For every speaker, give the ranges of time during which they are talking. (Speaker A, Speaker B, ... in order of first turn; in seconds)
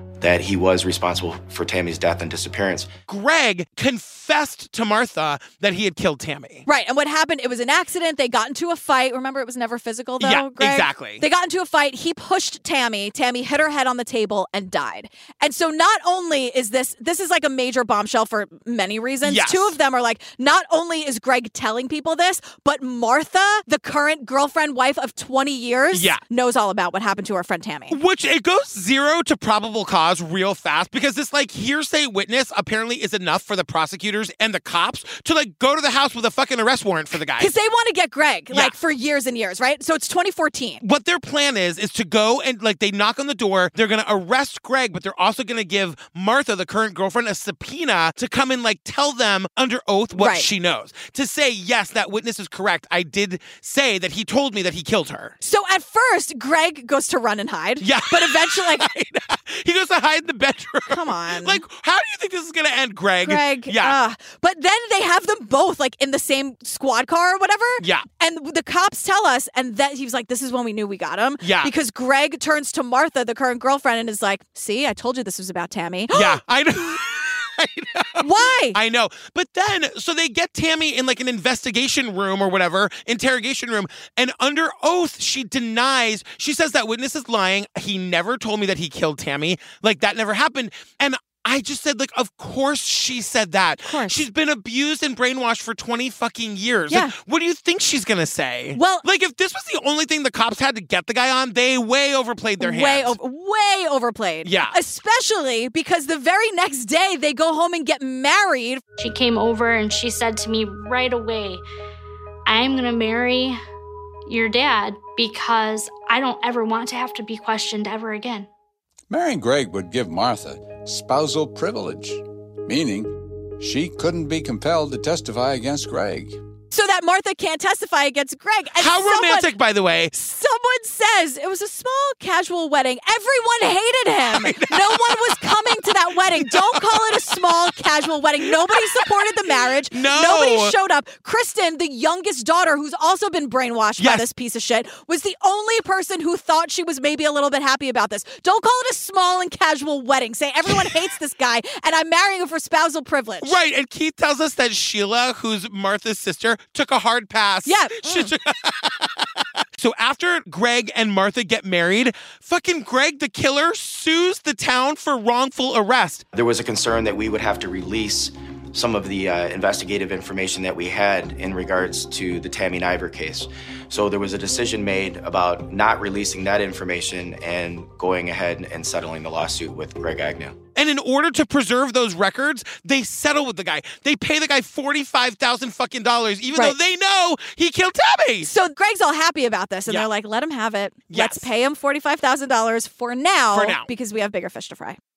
Speaker A: 0.2-2.9, 166.3-180.6
Speaker B: 3.1-6.7, 10.2-11.2, 19.2-19.8, 25.9-26.2, 27.9-37.5, 40.8-55.4, 57.8-64.0, 67.8-68.1, 71.4-71.7, 76.1-103.2, 104.4-104.8, 128.8-130.1, 134.3-137.8, 138.4-140.8, 144.0-144.3, 153.4-159.1, 159.8-166.2, 180.8-188.5, 191.1-191.5, 193.5-193.9
Speaker C: 6.7-28.0, 37.4-40.8, 50.2-50.5, 55.4-58.9, 60.9-61.6, 63.2-76.4, 78.2-78.8, 93.8-94.2, 96.9-97.2, 98.8-99.0, 102.6-108.8, 126.7-129.5, 130.1-153.6, 157.7-158.3, 188.4-195.0
Speaker D: 109.0-111.6, 112.5-113.6, 114.3-118.5
Speaker E: 119.1-126.4